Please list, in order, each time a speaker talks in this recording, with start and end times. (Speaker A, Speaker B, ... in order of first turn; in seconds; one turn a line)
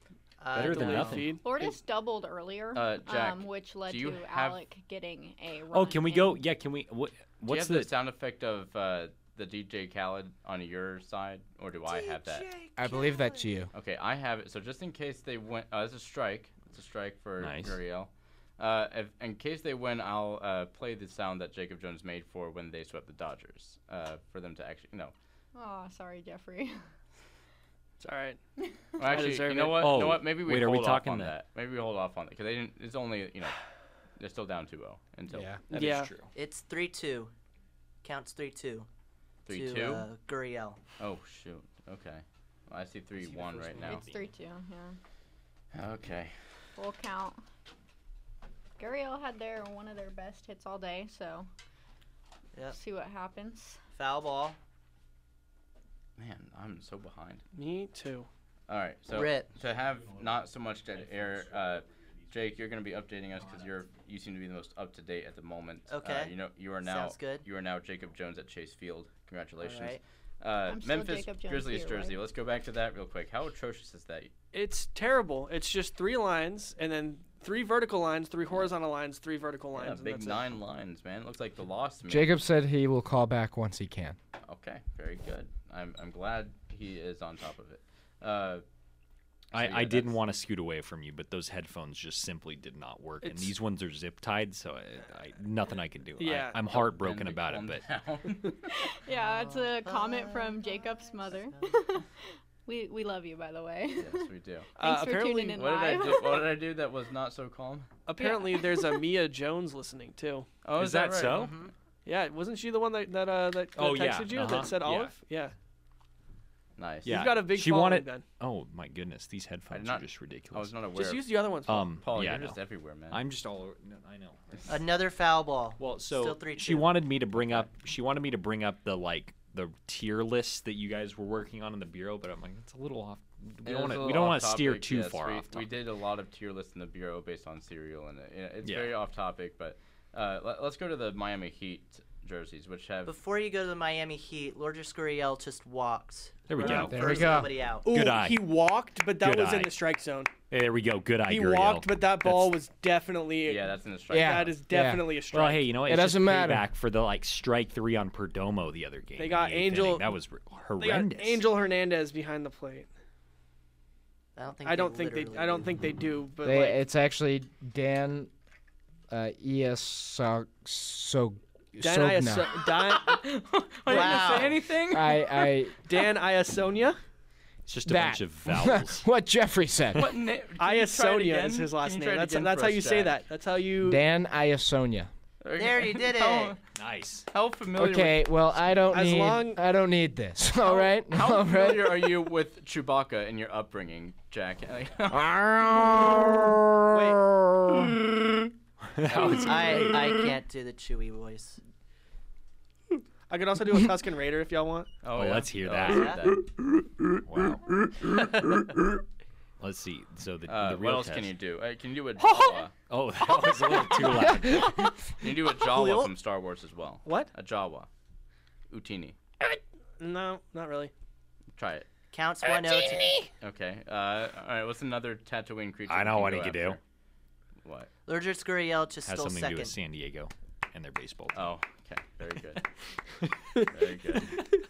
Speaker A: 0.4-1.3
Speaker B: 0.5-1.4
Speaker C: 0.6-1.4
Speaker D: 1.4-6.4
Speaker E: 2.8-4.6
Speaker B: 5.7-7.9
Speaker E: 7.5-12.5
Speaker F: 12.8-13.7
Speaker C: 12.8-13.3
Speaker E: 13.7-25.1
Speaker B: 17.4-17.8
Speaker D: 25.6-26.8
Speaker C: 28.0-28.4
Speaker E: 29.0-33.6
Speaker C: 29.0-29.9
Speaker B: 29.8-31.4
Speaker E: 34.2-35.5
Speaker F: 35.3-35.6
Speaker C: 35.7-36.1
Speaker B: 35.7-36.3
Speaker A: 36.3-37.3
Speaker A: 38.0-38.9
Speaker E: 39.5-40.1
Speaker A: 39.5-40.8
Speaker E: 41.0-44.0
Speaker B: 43.2-44.3
Speaker D: 43.9-45.0
Speaker E: 45.7-46.3
Speaker D: 46.8-47.4
Speaker D: 48.8-51.5
Speaker D: 52.7-53.8
Speaker A: 53.9-54.6
Speaker E: 56.2-57.4
Speaker C: 57.5-58.3
Speaker E: 58.7-74.3
Speaker A: 59.1-59.5
Speaker B: 61.0-61.8
Speaker A: 65.9-67.5
Speaker A: 69.6-70.0
Speaker D: 70.7-72.2
Speaker C: 74.5-80.5
Speaker E: 79.8-82.4
Speaker F: 82.1-84.2
Speaker E: 84.5-88.6
Speaker E: 89.5-90.2
Speaker B: 89.5-97.8
Speaker C: 93.2-93.5
Speaker C: 96.2-96.7
Speaker E: 96.7-98.7
Speaker D: 98.7-102.1
Speaker A: 99.1-102.0
Speaker D: 102.7-104.3
Speaker E: 104.0-104.7
Speaker C: 104.8-105.5
Speaker D: 104.8-106.5
Speaker E: 105.5-107.9
Speaker C: 108.1-110.5
Speaker D: 108.2-109.0
Speaker E: 110.6-111.5
Speaker B: 110.8-111.5
Speaker A: 111.3-111.7
Speaker C: 112.0-115.5
Speaker B: 113.8-115.2
Speaker E: 116.8-117.3
Speaker B: 117.0-120.8
Speaker C: 117.1-118.2
Speaker E: 119.7-123.2
Speaker C: 120.9-121.9
Speaker B: 121.7-122.6
Speaker B: 123.1-124.8
Speaker A: 124.7-127.2
Speaker B: 125.8-135.7
Speaker E: 127.4-127.7
Speaker E: 133.7-143.1
Speaker B: 138.6-139.0
Speaker A: 143.1-147.9
Speaker B: 146.5-148.5
Speaker F: 146.6-147.5
Speaker C: 147.8-150.3
Speaker B: 149.2-149.8
Speaker B: 150.5-152.6
Speaker C: 151.2-155.8
Speaker E: 153.4-154.6
Speaker F: 154.1-155.1
Speaker B: 155.3-161.4
Speaker F: 155.8-156.7
Speaker C: 159.2-160.1
Speaker C: 160.8-162.9
Speaker A: 164.4-165.7
Speaker C: 164.6-166.8
Speaker F: 166.4-168.3
Speaker F: 169.1-172.5
Speaker C: 171.8-173.2
Speaker E: 172.8-175.5
Speaker A: 173.9-174.6
Speaker C: 173.9-174.5
Speaker F: 174.9-175.8
Speaker C: 175.8-177.0
Speaker B: 177.7-179.0
Speaker F: 177.9-180.1
Speaker E: 180.0-183.2
Speaker C: 180.6-184.0
Speaker F: 183.8-185.1
Speaker E: 185.4-186.6
Speaker A: 185.6-186.6
Speaker B: 186.7-187.3
Speaker E: 187.3-188.3
Speaker F: 187.8-192.1
Speaker C: 188.9-189.6
Speaker E: 190.6-195.2
Speaker F: 195.1-198.0
Speaker C: 196.9-197.2
Speaker B: 198.9-200.3
Speaker E: 199.1-199.8
Speaker A: 199.4-201.6
Speaker C: 203.3-204.9
Speaker E: 205.0-206.4
Speaker B: 205.1-206.2
Speaker A: 205.8-206.3
Speaker B: 207.2-207.7
Speaker B: 209.6-211.3
Speaker E: 210.5-212.7
Speaker C: 212.2-212.6
Speaker B: 212.8-215.0
Speaker F: 214.2-214.6
Speaker E: 215.2-217.9
Speaker C: 215.6-216.1
Speaker C: 217.1-217.3
Speaker E: 218.7-219.2
Speaker C: 219.5-220.9
Speaker E: 221.6-221.9
Speaker A: 222.1-223.1
Speaker E: 223.4-226.8
Speaker B: 225.9-226.8
Speaker E: 227.6-227.9
Speaker A: 228.1-229.8
Speaker B: 229.0-231.5
Speaker E: 231.3-232.6
Speaker E: 233.6-234.4